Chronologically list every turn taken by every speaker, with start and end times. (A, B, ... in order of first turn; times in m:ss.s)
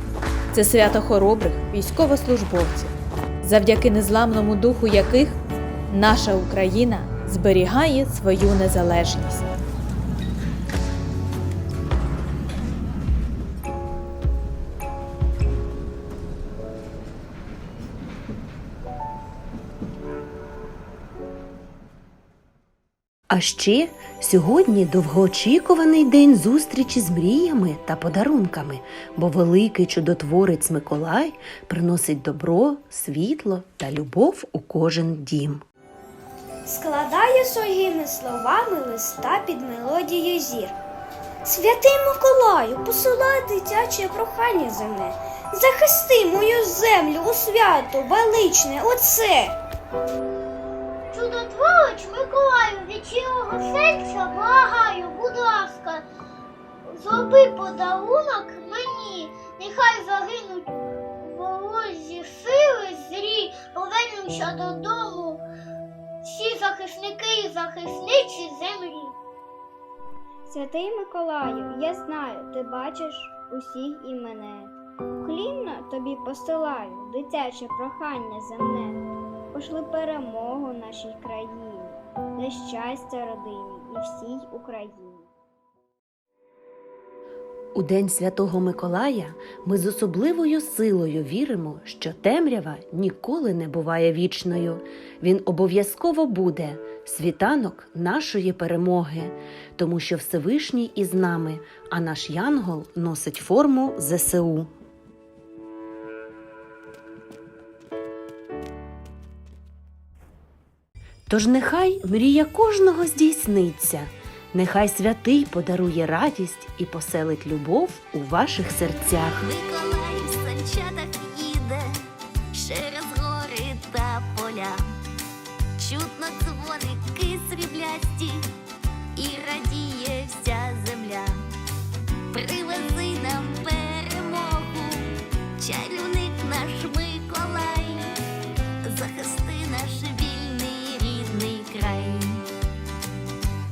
0:00.5-0:09.5 A
0:23.3-0:35.6 B
0:36.6-0:40.8 C
0:41.4-0:49.6 C
0:51.1-0:56.0 D
0:56.9-1:05.4 D
1:06.2-1:09.1 D
1:10.5-1:25.3 E
1:27.7-1:44.7 B
1:51.3-1:59.4 B
1:59.4-2:01.9 F
2:02.5-2:04.8 F
2:05.8-2:08.5 F
2:09.1-2:11.4 F
2:12.3-2:18.1 F
2:18.8-2:22.4 F